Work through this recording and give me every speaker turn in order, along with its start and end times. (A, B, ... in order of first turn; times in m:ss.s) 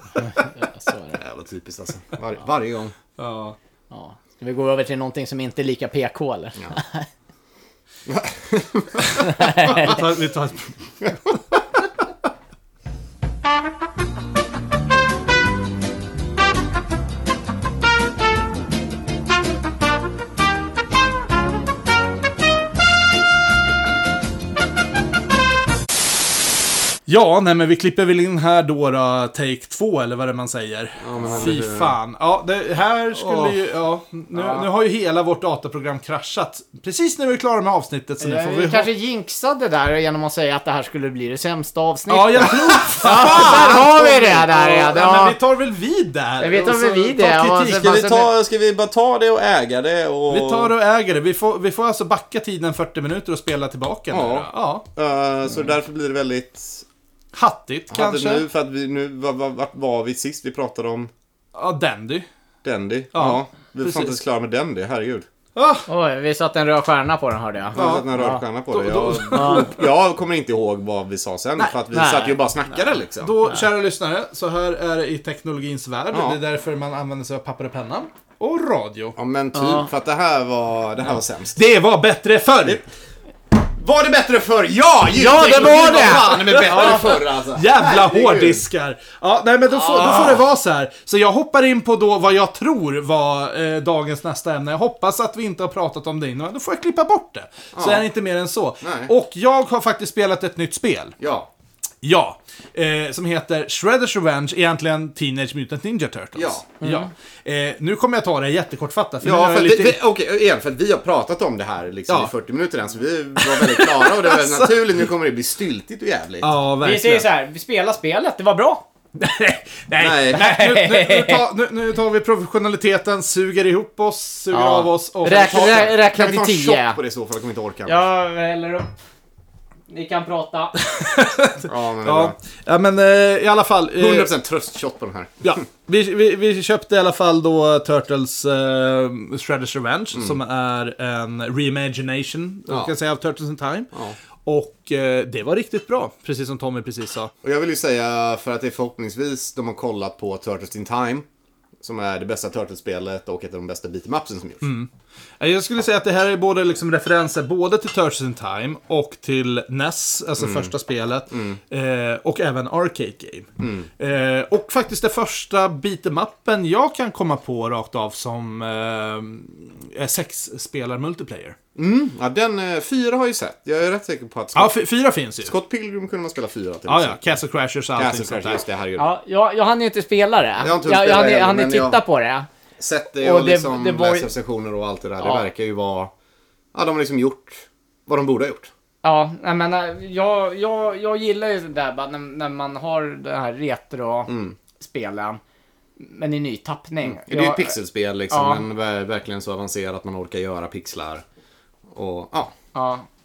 0:00.2-0:01.2 A
0:01.1-0:02.9 B
0:03.2-0:03.6 C
0:03.9-0:07.1 A
0:08.1-0:10.0 B
0:09.0-0:10.7 C
0:09.4-0:09.9 A
0:11.0-0:11.6 B
0:27.1-0:38.9 C
0:31.0-0:31.9 B
0:33.2-0:33.5 B
0:34.3-0:34.6 A
0:38.2-0:45.4 A
0:42.1-0:48.1 C
0:43.0-0:44.4 B
0:46.4-0:48.3 A
0:47.5-0:50.7 B
0:50.3-0:54.8 C
0:54.1-0:56.8 B
0:57.3-0:58.4 C
0:57.9-1:01.1 B
1:01.5-1:02.3 C
1:02.6-1:05.2 B
1:03.1-1:04.2 C
1:05.6-1:05.9 C
1:05.9-1:08.4 A
1:07.7-1:13.3 B
1:07.7-1:09.8 C
1:09.3-1:09.6 A
1:11.9-1:12.4 A
1:13.2-1:19.2 C
1:16.1-1:16.4 B
1:19.2-1:21.6 B
1:19.5-1:19.9 A
1:21.5-1:22.8 C
1:23.6-1:28.6 B
1:25.2-1:26.8 A
1:25.2-1:41.2 C
1:29.9-1:30.4 B
1:37.7-1:38.1 B
1:38.8-1:39.1 B
1:41.2-1:41.5 B
1:42.0-1:50.0 C
1:46.3-1:46.6 B
1:46.8-1:47.1 A
1:49.2-1:56.5 B
1:52.1-1:52.3 C
1:53.4-1:54.7 C
1:56.4-1:57.3 C
1:56.8-1:58.8 A
1:59.2-2:05.9 C
2:00.0-2:00.4 B
2:00.3-2:01.4 A
2:04.5-2:07.0 A
2:05.3-2:08.0 B
2:07.8-2:08.9 A
2:09.9-2:10.7 A
2:10.8-2:14.3 C
2:11.6-2:12.4 B
2:14.0-2:15.6 B
2:15.4-2:23.9 C
2:20.1-2:20.4 B
2:22.7-2:22.9 B
2:24.4-2:27.3 C
2:27.4-2:31.2 B
2:31.8-2:34.7 B
2:34.6-2:34.9 C
2:35.4-2:51.6 C
2:40.4-2:40.7 B
2:41.3-2:41.6 B
2:43.6-2:43.9 B
2:51.8-2:54.7 B
2:54.5-2:55.5 C
2:55.4-2:57.4 B
2:56.9-2:58.6 C
2:58.0-2:59.1 B
2:59.0-3:02.5 A
3:00.6-3:02.0 B
3:02.8-3:06.1 B
3:03.2-3:04.3 A
3:06.7-3:08.7 B
3:09.0-3:15.4 A
3:14.3-3:14.6 B
3:16.0-3:17.8 A
3:17.0-3:21.2 B
3:18.3-3:18.6 A
3:21.9-3:22.5 B
3:22.7-3:23.0 A